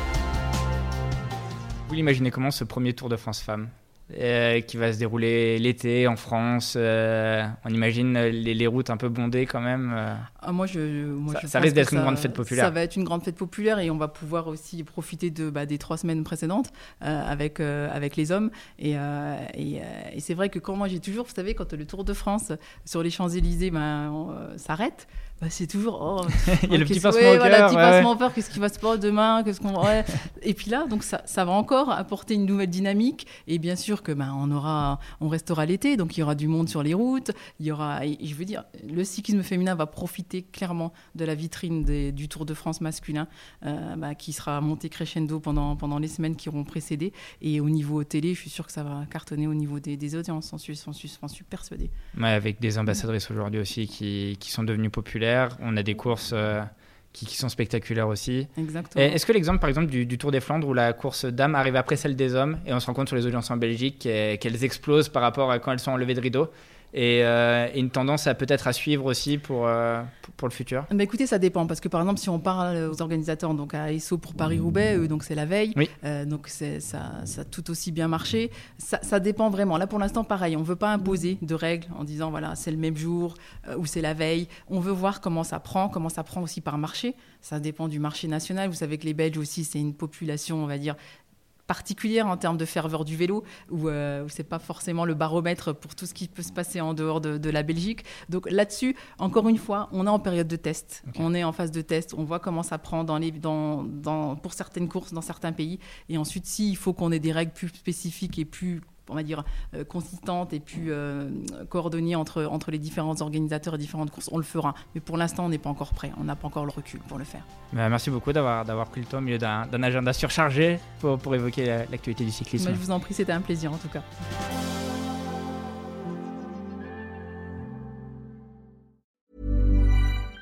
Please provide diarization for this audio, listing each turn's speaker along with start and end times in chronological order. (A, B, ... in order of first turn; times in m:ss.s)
0:01.9-0:10.3 A
0:10.4-0:51.9 B
0:11.3-0:12.7 A
0:26.4-0:28.1 A
0:52.1-1:10.9 A
0:58.6-0:59.2 B
1:10.9-1:31.0 B
1:31.7-1:57.5 B
1:57.7-2:02.8 A
2:02.6-2:04.1 B